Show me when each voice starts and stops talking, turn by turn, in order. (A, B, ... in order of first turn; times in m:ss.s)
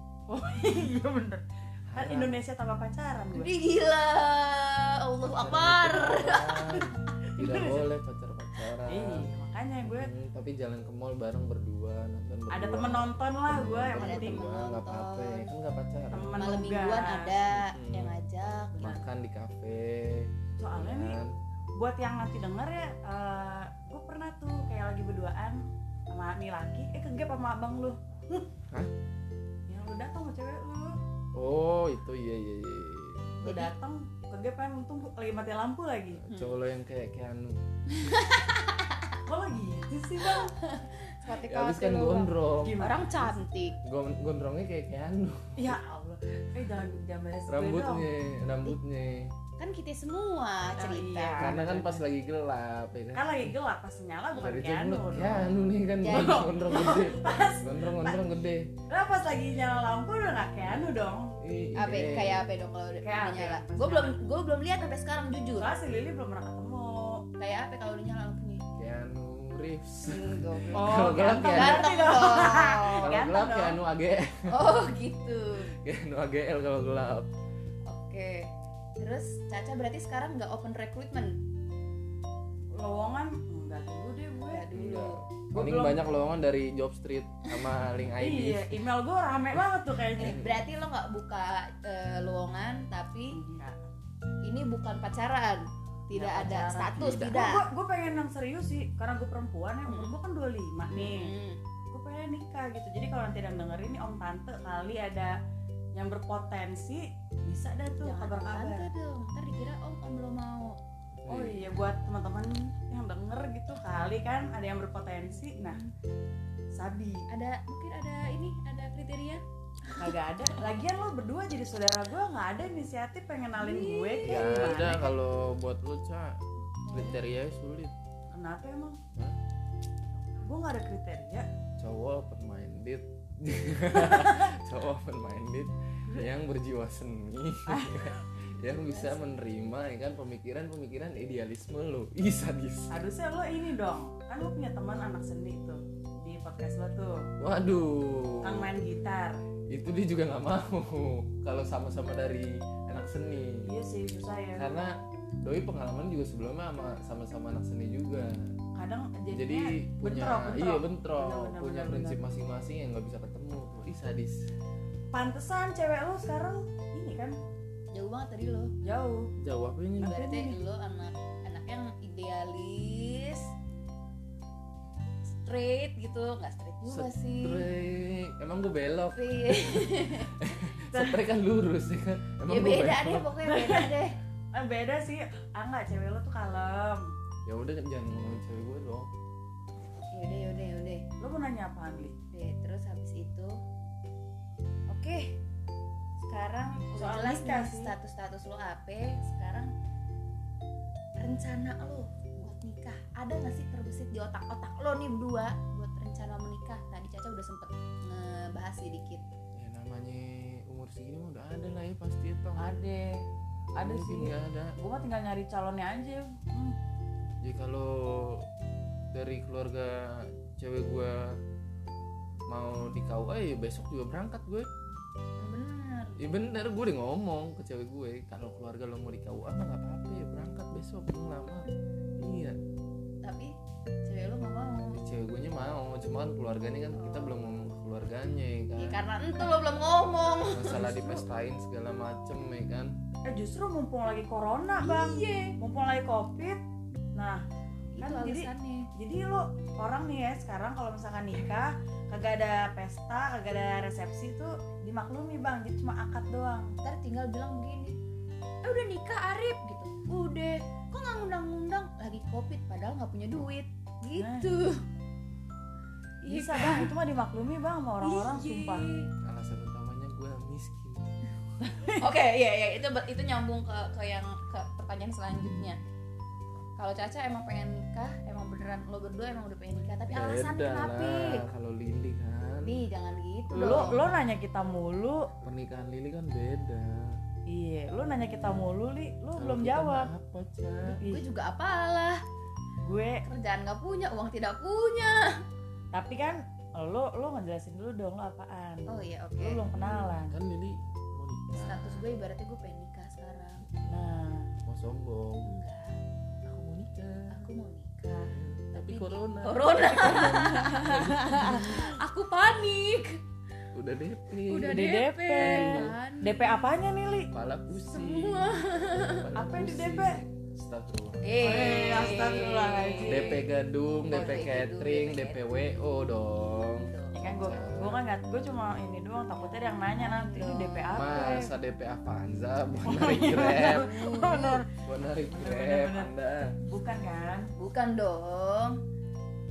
0:00.3-0:03.5 A
0:01.9-0:02.4 B
0:03.3-0:06.8 C
0:05.3-0:09.3 B
0:06.8-0:07.9 A
0:08.8-0:10.1 A
0:09.8-0:16.6 B
0:12.5-0:14.4 A
0:14.0-0:15.5 C
0:16.1-0:17.3 A
0:16.4-0:18.9 C
0:17.4-0:18.2 B
0:18.7-0:19.0 A
0:18.8-0:21.3 B
0:20.6-0:21.2 A
0:21.8-0:28.5 A
0:29.7-0:31.0 A
0:31.4-0:33.3 B
0:33.4-0:36.2 A
0:33.4-0:33.7 C
0:36.2-0:38.2 B
0:36.3-0:36.6 C
0:37.9-0:39.2 C
0:39.2-0:40.5 A
0:40.2-0:43.8 C
0:41.3-0:42.8 B
0:42.6-0:43.3 A
0:43.8-0:45.8 B
0:45.6-0:48.0 A
0:47.5-0:49.4 B
0:49.6-0:51.6 C
0:50.8-0:52.0 A
0:51.4-0:53.5 B
0:53.1-0:55.5 A
0:54.4-0:58.7 B
0:56.0-0:57.0 C
0:56.0-0:58.3 A
0:58.9-1:01.4 A
1:00.6-1:02.4 B
1:01.8-1:05.7 C
1:03.0-1:04.2 A
1:05.6-1:07.2 A
1:07.4-1:08.6 C
1:08.8-1:12.0 B
1:10.1-1:13.2 C
1:10.7-1:13.8 A
1:13.0-1:14.6 B
1:14.5-1:15.7 C
1:15.7-1:17.3 B
1:17.9-1:21.4 C
1:22.8-1:24.6 A
1:24.4-1:25.2 C
1:24.7-1:28.8 B
1:25.6-1:26.0 A
1:28.2-1:30.4 A
1:29.6-1:30.6 B
1:30.2-1:33.4 C
1:33.3-1:33.8 A
1:34.4-1:37.7 C
1:36.1-1:41.3 A
1:37.0-1:37.4 B
1:39.9-1:40.1 C
1:40.9-1:41.6 C
1:41.9-1:45.4 A
1:46.0-1:48.9 A
1:48.0-1:50.8 C
1:51.2-1:51.7 B
1:51.3-1:55.8 A
1:55.3-1:55.9 C
1:56.8-1:57.3 A
1:57.3-2:00.1 C
2:00.0-2:05.0 A
2:03.6-2:05.1 C
2:04.2-2:06.4 B
2:06.9-2:07.2 C
2:06.9-2:07.9 B
2:08.3-2:09.0 A
2:10.4-2:11.5 A
2:11.8-2:23.0 B
2:14.0-2:14.4 A
2:17.7-2:18.1 A
2:18.6-2:19.5 C
2:22.9-2:27.3 A
2:27.4-2:28.7 B
2:28.4-2:29.4 A
2:29.7-2:33.6 B
2:33.6-2:34.7 A
2:34.6-2:38.4 B
2:38.8-2:42.2 A
2:39.3-2:44.5 B
2:45.1-2:47.4 A
2:47.9-2:48.7 C
2:48.8-2:49.3 A
2:49.4-2:50.2 B
2:50.0-2:50.6 A
2:50.0-2:53.5 C
2:55.3-2:57.7 C
2:56.9-3:03.4 B
2:59.1-3:00.3 C
3:00.8-3:01.2 A
3:02.5-3:04.2 C
3:03.4-3:03.9 A
3:04.6-3:07.1 A
3:07.5-3:09.1 B
3:10.1-3:11.0 C
3:11.2-3:12.2 A
3:12.3-3:13.6 C
3:14.9-3:15.4 C
3:16.2-3:19.7 C
3:17.0-3:17.9 A
3:21.2-3:29.2 C
3:29.6-3:32.7 B
3:32.6-3:33.2 A
3:33.7-3:34.7 B
3:33.8-3:36.8 A
3:37.4-3:38.5 B
3:39.1-3:41.4 B
3:42.5-3:44.7 B
3:45.4-3:46.2 C
3:46.2-3:51.7 B
3:52.2-3:52.6 B
3:53.2-3:53.5 C
3:54.0-3:55.0 C
3:54.9-3:59.0 B
3:57.0-3:57.3 C
3:58.8-4:01.2 C
4:00.5-4:03.0 B
4:03.3-4:06.6 A
4:04.8-4:05.6 C
4:07.2-4:07.4 A
4:07.9-4:08.9 C
4:08.0-4:16.7 A
4:16.8-4:18.0 C
4:18.6-4:24.8 C
4:24.2-4:24.5 A
4:26.2-4:26.9 C
4:26.3-4:28.9 A
4:28.0-4:29.1 C
4:29.2-4:31.1 B
4:31.6-4:32.0 A
4:31.9-4:35.8 C
4:36.8-4:41.4 C
4:40.1-4:42.8 B
4:42.6-4:44.0 C
4:43.5-4:45.3 A
4:43.5-4:44.0 B
4:45.4-4:47.2 B
4:47.5-4:50.1 A
4:48.3-4:48.7 B
4:49.4-4:51.0 B
4:50.8-4:51.2 A
4:51.0-4:52.2 C
4:52.8-4:53.2 A
4:53.2-4:55.4 C
4:55.9-5:00.4 A
4:58.9-4:59.6 C
4:59.7-5:02.1 B
5:01.6-5:03.7 C
5:03.9-5:04.5 A
5:04.7-5:05.5 B
5:05.5-5:06.0 C
5:06.4-5:07.5 B
5:07.3-5:13.2 C
5:08.3-5:12.0 B
5:10.2-5:11.8 A
5:13.7-5:16.0 B
5:14.5-5:16.7 C
5:14.6-5:17.3 A
5:17.3-5:21.3 B
5:17.7-5:19.3 C
5:19.4-5:20.2 A
5:21.2-5:23.5 C
5:21.4-5:23.4 A
5:23.0-5:28.0 B
5:24.1-5:25.4 C
5:26.2-5:27.3 C
5:27.1-5:31.5 A
5:29.4-5:31.4 C
5:31.0-5:33.9 B
5:32.8-5:34.7 A
5:33.5-5:34.6 C
5:34.8-5:36.5 B
5:35.3-5:36.1 A
5:36.6-5:37.5 A
5:37.6-5:38.8 C